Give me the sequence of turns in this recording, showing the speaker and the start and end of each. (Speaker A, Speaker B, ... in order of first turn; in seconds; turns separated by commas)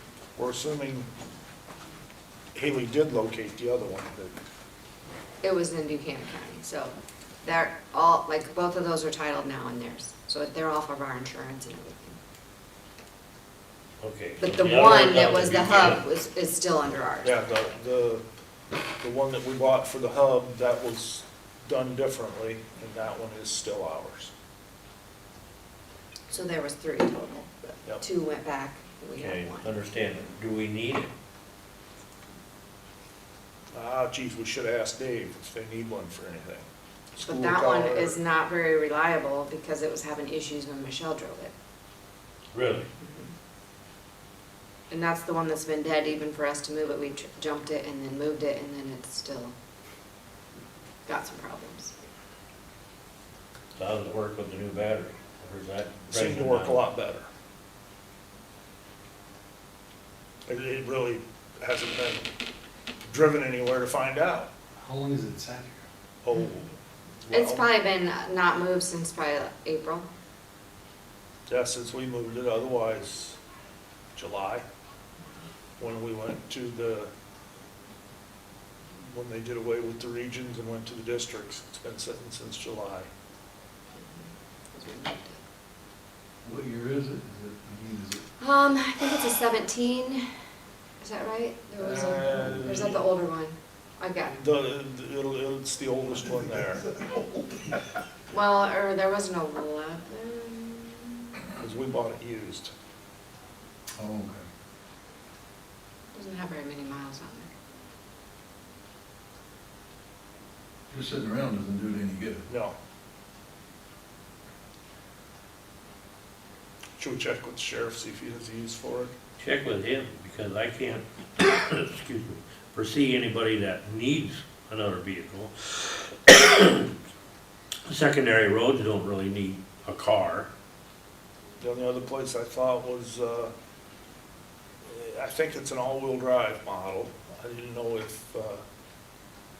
Speaker A: 0.3-1.1, Speaker A: 2.5-4.4, Speaker B: 5.4-12.2, Speaker C: 14.0-16.0, Speaker B: 14.4-17.3, Speaker A: 17.2-18.2, Speaker A: 19.0-24.3, Speaker B: 26.3-29.7, Speaker C: 29.1-31.1, Speaker A: 33.7-36.7, Speaker A: 37.2-38.1, Speaker B: 37.2-41.5, Speaker C: 42.5-42.9, Speaker B: 43.0-43.3, Speaker B: 44.9-49.5, Speaker B: 51.0-51.9, Speaker C: 53.7-56.8, Speaker A: 56.1-57.3, Speaker A: 60.5-62.3, Speaker A: 63.0-64.5, Speaker D: 64.8-65.8, Speaker A: 66.2-66.7, Speaker A: 67.2-67.7, Speaker B: 67.3-70.1, Speaker A: 71.5-73.4, Speaker A: 74.1-74.6, Speaker A: 75.8-77.1, Speaker A: 79.0-83.1, Speaker B: 84.7-85.4, Speaker D: 86.4-88.2, Speaker B: 88.4-90.3, Speaker B: 91.0-94.4, Speaker A: 91.8-93.0, Speaker A: 94.4-96.8, Speaker B: 98.3-101.5, Speaker A: 101.6-102.7, Speaker D: 104.0-104.4, Speaker B: 106.1-107.5, Speaker D: 110.9-112.4, Speaker A: 112.5-112.7, Speaker A: 117.0-119.1, Speaker C: 119.4-126.9, Speaker C: 127.8-130.5, Speaker A: 131.6-133.5, Speaker A: 134.8-138.6